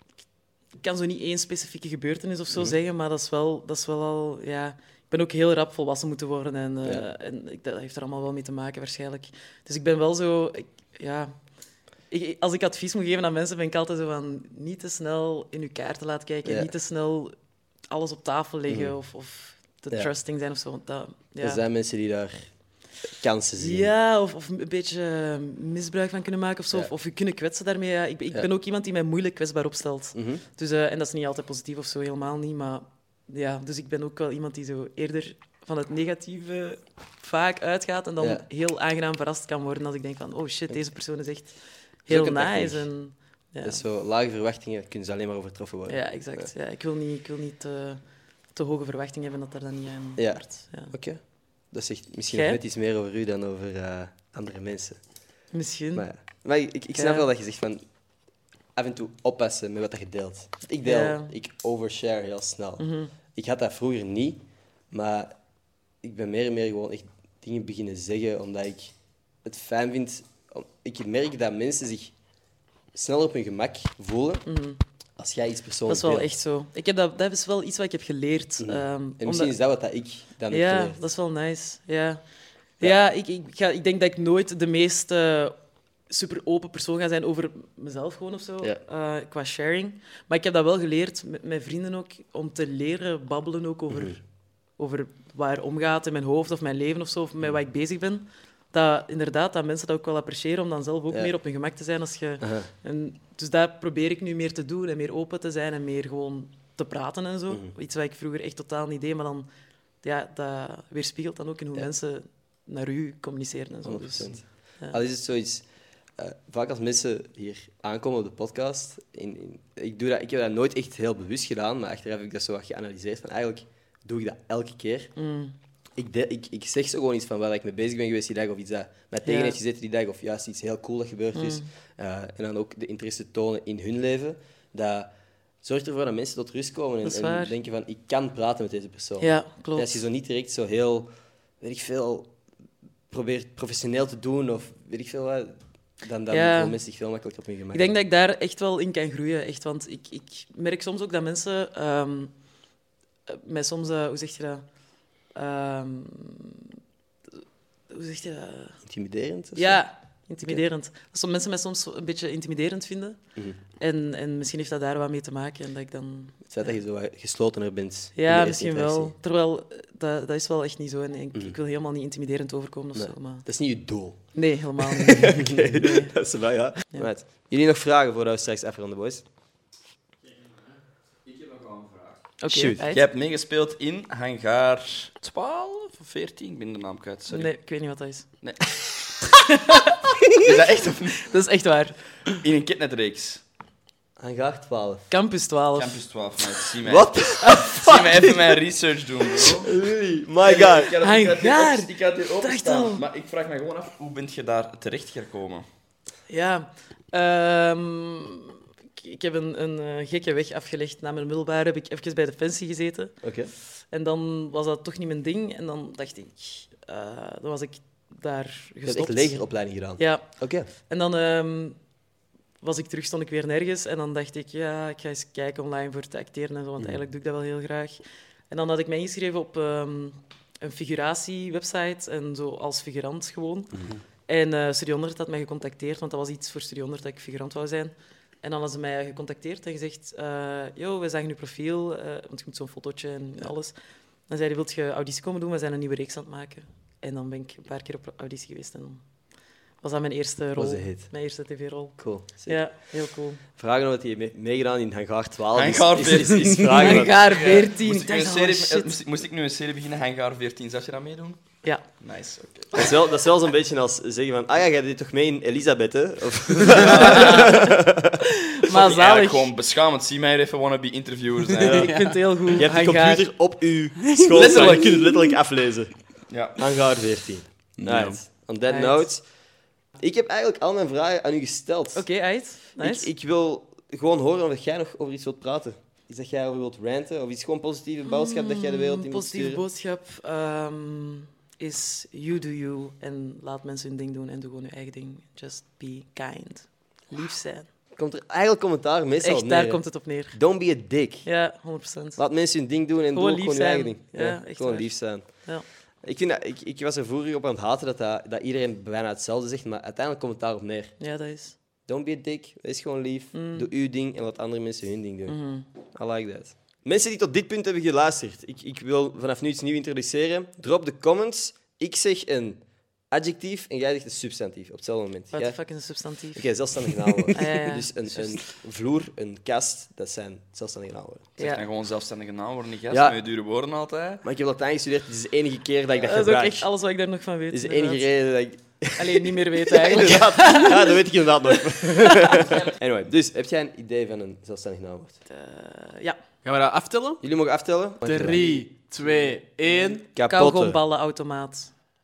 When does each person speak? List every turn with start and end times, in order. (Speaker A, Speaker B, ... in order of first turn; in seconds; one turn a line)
Speaker A: 0.8-11.3
Speaker B: 2.5-2.8
Speaker A: 12.1-17.3
Speaker B: 16.5-16.7
Speaker A: 17.9-21.6
Speaker B: 18.7-18.9
Speaker B: 21.4-22.5
Speaker B: 23.2-23.9
Speaker A: 23.6-43.8
Speaker B: 30.1-30.4
Speaker B: 42.1-42.9
Speaker B: 43.6-46.5
Speaker A: 45.9-48.0
Speaker A: 48.5-50.9
Speaker B: 50.2-55.0
Speaker A: 52.3-52.6
Speaker A: 55.5-57.3
Speaker B: 56.0-57.8
Speaker B: 58.8-65.3
Speaker A: 60.8-61.3
Speaker A: 62.8-63.1
Speaker B: 66.0-72.2
Speaker B: 72.9-74.5
Speaker A: 74.5-74.8
Speaker B: 75.2-76.3
Speaker A: 75.9-79.5
Speaker B: 78.6-81.0
Speaker A: 80.5-82.2
Speaker A: 82.8-85.5
Speaker A: 86.1-94.2
Speaker B: 93.9-94.2
Speaker A: 94.8-109.5
Speaker B: 102.4-102.7
Speaker A: 110.0-115.0
Speaker B: 113.8-115.7
Speaker B: 116.2-125.1
Speaker A: 125.2-125.5
Speaker B: 126.0-142.3
Speaker A: 129.2-129.6
Speaker A: 131.3-131.7
Speaker A: 137.0-137.6
Speaker A: 139.2-140.0
Speaker B: 143.1-148.0
Speaker A: 146.3-146.8
Speaker A: 147.7-152.3
Speaker A: 153.3-154.7
Speaker A: 155.3-156.7
Speaker A: 157.9-158.8
Speaker B: 158.8-159.8
Speaker A: 159.6-163.2
Speaker A: 163.8-166.8
Speaker B: 166.5-169.2
Speaker A: 168.2-173.5
Speaker B: 172.9-174.2
Speaker A: 174.3-176.2
Speaker B: 174.8-179.2
Speaker C: 181.3-182.2
Speaker A: 182.4-183.0
Speaker B: 182.4-182.9
Speaker C: 182.8-187.5
Speaker A: 187.3-188.3
Speaker C: 188.4-188.8
Speaker A: 189.3-190.1
Speaker C: 190.4-191.3
Speaker A: 191.1-192.0
Speaker C: 192.3-193.4
Speaker B: 194.2-195.1
Speaker A: 195.1-196.0
Speaker C: 195.8-199.7
Speaker B: 196.8-198.3
Speaker A: 197.4-198.1
Speaker B: 199.6-200.9
Speaker C: 200.4-205.7
Speaker A: 201.0-203.0
Speaker A: 206.3-213.2
Speaker B: 213.2-213.5
Speaker A: 213.9-219.4
Speaker B: 218.8-220.7
Speaker A: 220.0-221.8
Speaker A: 222.6-233.7
Speaker B: 233.7-234.0
Speaker A: 234.3-243.7
Speaker A: 244.3-249.0
Speaker A: 249.8-253.4
Speaker B: 250.6-251.1
Speaker B: 252.0-252.7
Speaker B: 253.6-257.2
Speaker C: 255.5-263.0
Speaker A: 256.7-259.0
Speaker B: 262.7-268.2
Speaker C: 266.8-267.6
Speaker A: 266.8-269.5
Speaker C: 268.6-272.1
Speaker B: 271.6-275.9
Speaker A: 271.6-273.3
Speaker D: 274.2-274.8
Speaker C: 274.3-275.1
Speaker C: 276.3-276.6
Speaker B: 276.6-279.2
Speaker D: 277.8-278.2
Speaker A: 278.7-279.1
Speaker B: 280.0-282.1
Speaker A: 282.0-283.1
Speaker B: 282.8-289.6
Speaker A: 288.1-297.7
Speaker B: 297.9-301.3
Speaker A: 299.2-300.5
Speaker A: 301.2-302.2
Speaker B: 302.2-311.0
Speaker A: 303.1-305.7
Speaker A: 311.0-311.6
Speaker B: 311.9-325.6
Speaker A: 313.3-313.7
Speaker A: 315.3-315.7
Speaker A: 325.3-328.4
Speaker B: 326.4-331.3
Speaker A: 331.4-331.6
Speaker C: 331.4-334.2
Speaker B: 332.9-333.2
Speaker B: 334.2-336.7
Speaker A: 336.0-338.1
Speaker B: 337.5-345.2
Speaker A: 339.0-342.7
Speaker A: 345.3-346.2
Speaker D: 346.4-347.2
Speaker B: 347.2-348.6
Speaker D: 348.0-350.0
Speaker B: 350.1-350.8
Speaker A: 350.3-351.7